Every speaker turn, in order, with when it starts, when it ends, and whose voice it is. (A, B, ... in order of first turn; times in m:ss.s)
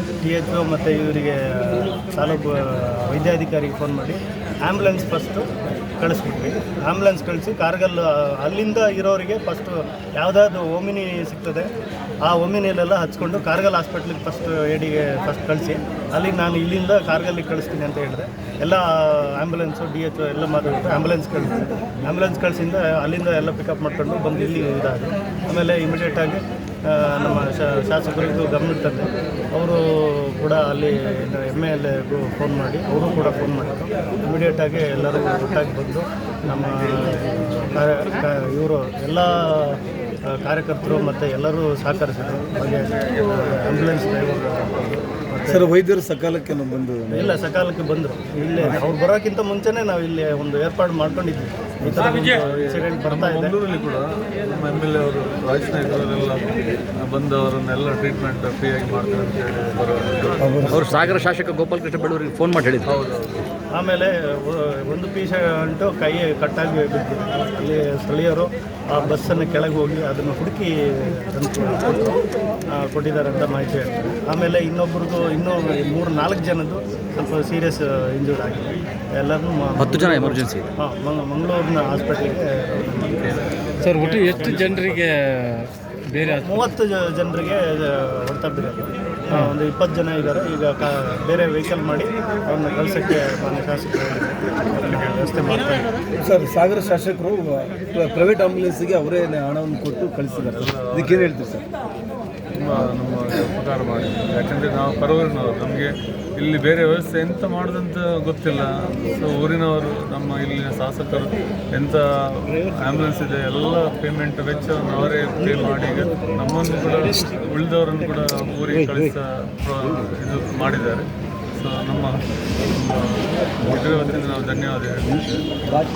0:00.2-0:05.4 A
0:06.0-0:11.7 A
0:12.2-0:39.8 A
0:40.3-0:45.6 A
0:45.4-0:47.4 B
0:47.1-0:53.6 A
0:52.2-0:56.5 C
0:57.0-1:01.2 C
1:00.4-1:00.9 B
1:00.7-1:02.9 D
1:02.8-1:03.5 C
1:03.8-1:12.1 A
1:12.7-1:23.4 A
1:19.8-1:20.7 D
1:23.0-1:25.0 C
1:23.8-1:26.7 E
1:23.9-1:24.8 A
1:26.4-1:35.9 A
1:36.2-1:41.6 B
1:40.3-1:41.3 C
1:42.6-2:05.4 C